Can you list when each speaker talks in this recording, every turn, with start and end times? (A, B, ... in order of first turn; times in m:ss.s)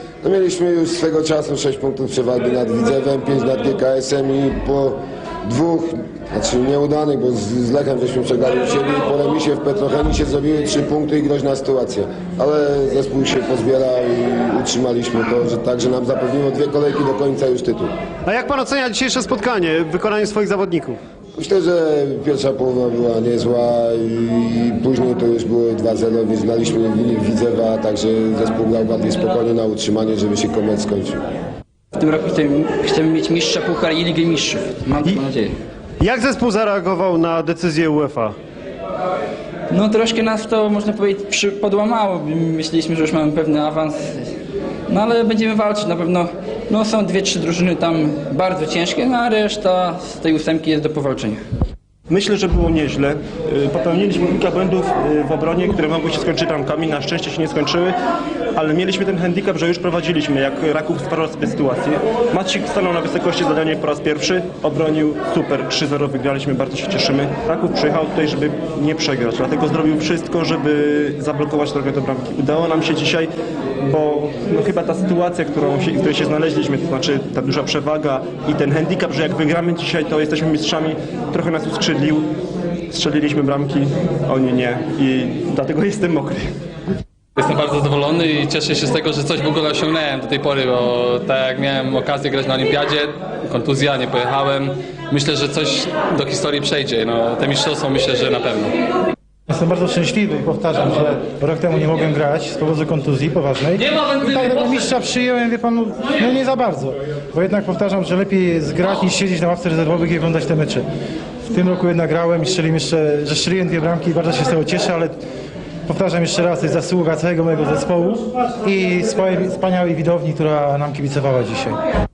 0:00.2-0:17.9 A
0:18.3-0:21.0 B
0:21.4-0:31.2 A
0:32.0-0:35.5 C
0:36.0-0:38.4 B
0:39.7-0:44.3 C
0:44.9-0:51.4 C
0:52.1-0:58.0 D
0:58.6-1:13.3 D
1:13.8-1:22.3 D
1:22.9-1:26.5 D
1:27.4-1:38.7 E
1:39.5-1:50.8 F
1:51.4-1:55.2 F
1:55.9-2:01.8 F